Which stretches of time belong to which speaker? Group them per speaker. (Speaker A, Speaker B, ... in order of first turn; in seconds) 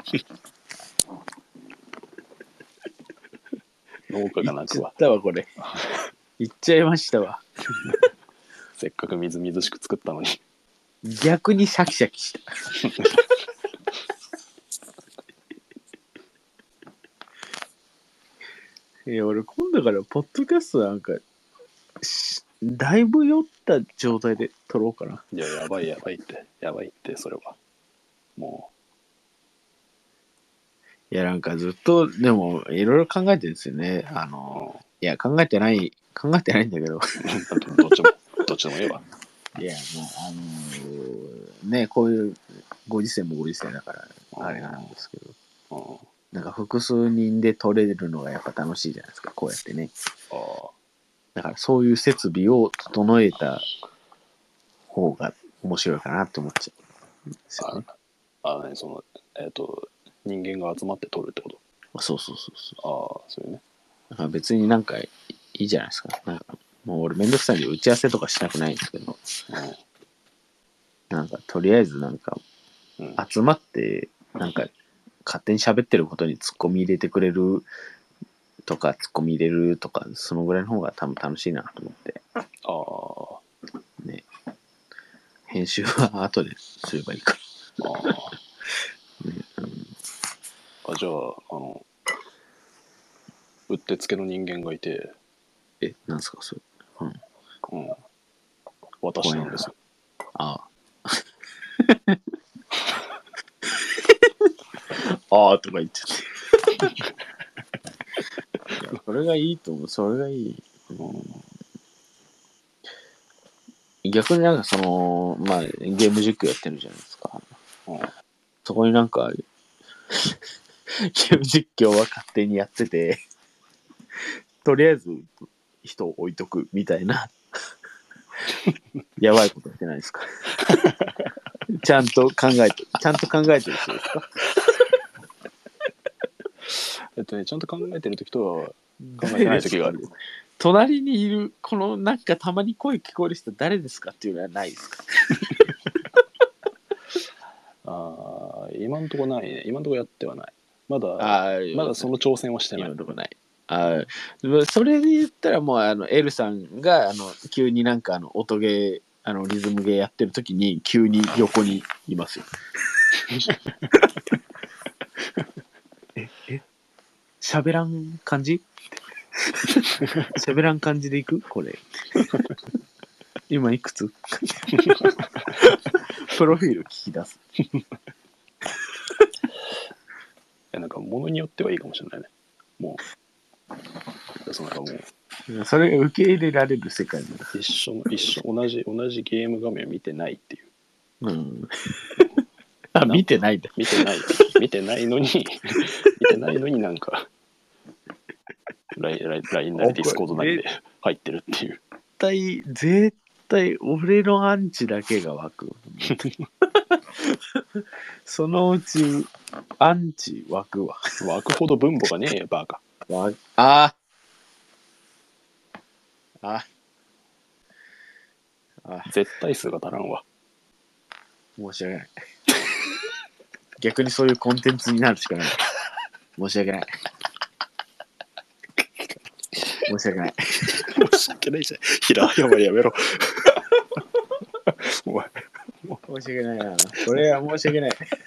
Speaker A: 4.1-4.9, 5.6-6.1, 8.8-10.4, 12.8-13.2, 25.3-27.6, 28.4-28.7, 34.5-34.8, 37.2-39.0, 44.3-44.9, 45.7-46.1, 50.3-50.7, 57.6-57.9, 58.4-61.6, 62.8-63.6, 69.5-69.8, 82.6-83.4, 87.8-88.3, 90.8-91.9, 93.7-95.1, 97.7-98.0, 99.0-99.7, 111.0-111.4, 117.9-118.1, 130.6-131.3, 136.7-140.0, 147.8-152.9, 174.8-175.1, 180.7-183.0, 184.4-185.1, 187.5-190.7, 193.0-197.3, 198.9-201.8, 206.1-206.4, 211.2-212.8, 219.1-220.2, 229.1-229.9, 230.7-233.7, 234.6-236.0
Speaker B: 4.4-5.5, 6.4-7.4, 11.0-12.7, 19.1-21.2, 22.0-25.2, 31.1-37.0, 39.5-45.4, 46.3-49.9, 51.4-53.6, 54.9-56.7, 57.5-57.8, 61.9-62.8, 64.1-69.2, 71.1-72.4, 73.2-74.7, 75.2-77.7, 78.6-82.2, 84.0-84.2, 85.5-87.4, 89.2-89.9, 95.8-97.2, 99.2-99.7, 100.3-101.2, 101.8-102.2, 103.7-104.3, 104.9-106.9, 108.8-111.3, 114.0-117.5, 118.6-119.4, 120.1-123.2, 124.6-127.3, 129.2-130.3, 131.7-134.3, 139.0-145.6, 151.2-152.1, 152.8-162.5, 166.2-166.6, 167.4-168.7, 169.5-171.8, 173.5-177.4, 185.5-187.5, 191.2-192.2, 192.9-193.8, 199.8-200.6, 202.2-211.1, 213.1-213.9, 216.4-216.7, 218.8-219.1, 221.6-222.1, 223.8-225.7, 226.4-226.9, 229.9-230.9, 236.1-238.1